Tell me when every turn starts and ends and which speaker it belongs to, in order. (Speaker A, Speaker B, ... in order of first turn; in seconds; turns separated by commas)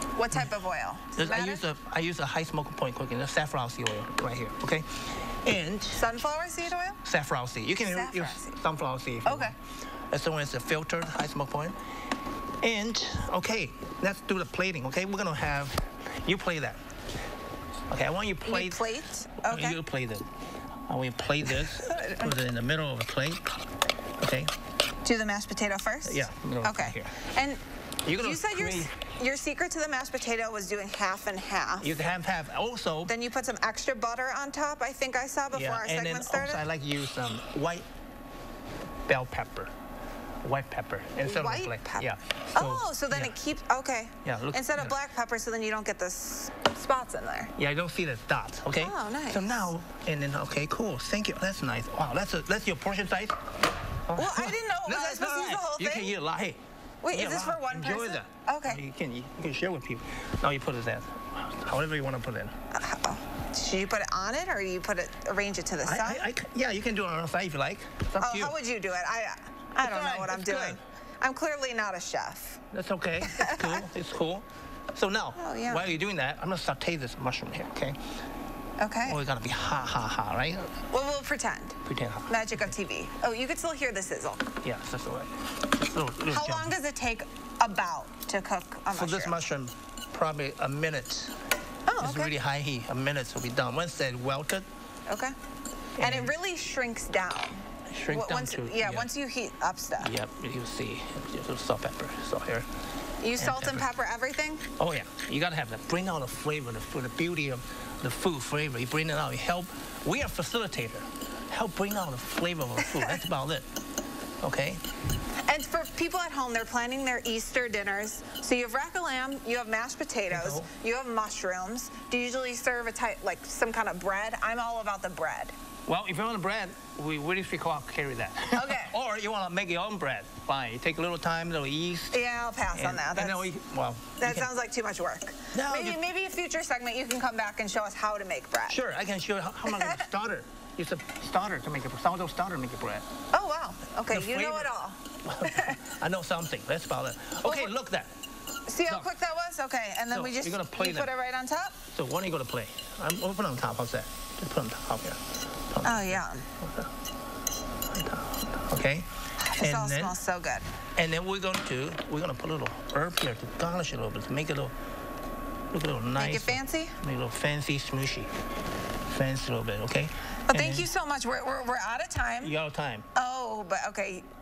Speaker A: 0.1-1.6, Speaker B: 1.2-6.2, Speaker A: 5.9-7.0, Speaker B: 7.0-9.5, Speaker A: 7.8-8.6, Speaker A: 9.2-9.5, Speaker B: 10.1-11.7, Speaker B: 12.6-16.8, Speaker B: 17.9-18.9, Speaker A: 18.4-19.8, Speaker B: 19.4-20.3, Speaker B: 20.9-23.4, Speaker A: 21.9-22.2, Speaker B: 24.2-24.5, Speaker A: 25.0-27.6, Speaker B: 26.0-27.1, Speaker B: 28.0-28.9, Speaker A: 28.1-31.9, Speaker B: 31.8-33.1, Speaker A: 33.1-36.6, Speaker B: 35.5-37.8, Speaker B: 39.1-39.7, Speaker B: 40.4-43.3, Speaker A: 41.2-47.5, Speaker B: 44.2-45.0, Speaker B: 47.5-53.4, Speaker A: 48.8-49.6, Speaker B: 54.1-56.6, Speaker A: 54.1-56.1, Speaker A: 57.0-58.8, Speaker B: 57.1-62.5, Speaker A: 62.7-66.2, Speaker B: 65.8-68.6, Speaker A: 68.2-72.6, Speaker B: 69.8-70.8, Speaker B: 72.7-78.0, Speaker A: 73.2-73.8, Speaker A: 75.4-75.8, Speaker A: 78.8-79.2, Speaker B: 79.0-80.8, Speaker A: 80.9-84.5, Speaker B: 81.8-82.7, Speaker B: 84.6-86.7, Speaker A: 86.3-89.3, Speaker B: 88.9-91.3, Speaker A: 91.9-92.3, Speaker B: 92.0-94.7, Speaker A: 95.1-95.3, Speaker B: 96.0-96.3, Speaker A: 96.0-100.1, Speaker B: 97.9-99.1, Speaker B: 100.0-102.7, Speaker A: 103.2-104.6, Speaker B: 103.4-103.9, Speaker B: 104.8-113.7, Speaker B: 114.4-114.8, Speaker A: 115.5-125.5, Speaker B: 120.3-120.7, Speaker B: 125.9-132.2, Speaker A: 128.5-128.9, Speaker A: 132.1-133.5, Speaker B: 132.7-134.5, Speaker A: 134.2-138.8, Speaker B: 135.5-136.0, Speaker B: 138.7-143.1, Speaker A: 139.7-140.1, Speaker A: 143.3-145.8, Speaker B: 144.1-148.1, Speaker A: 147.4-147.7, Speaker A: 148.7-151.8, Speaker B: 150.1-151.1, Speaker B: 151.9-156.9, Speaker A: 155.8-156.5, Speaker B: 157.9-159.1, Speaker A: 159.4-160.7, Speaker B: 159.6-160.2, Speaker B: 161.0-164.7, Speaker B: 165.7-168.3, Speaker A: 166.2-166.9, Speaker B: 169.1-170.9, Speaker A: 170.5-172.5, Speaker B: 172.4-173.1, Speaker A: 173.1-174.2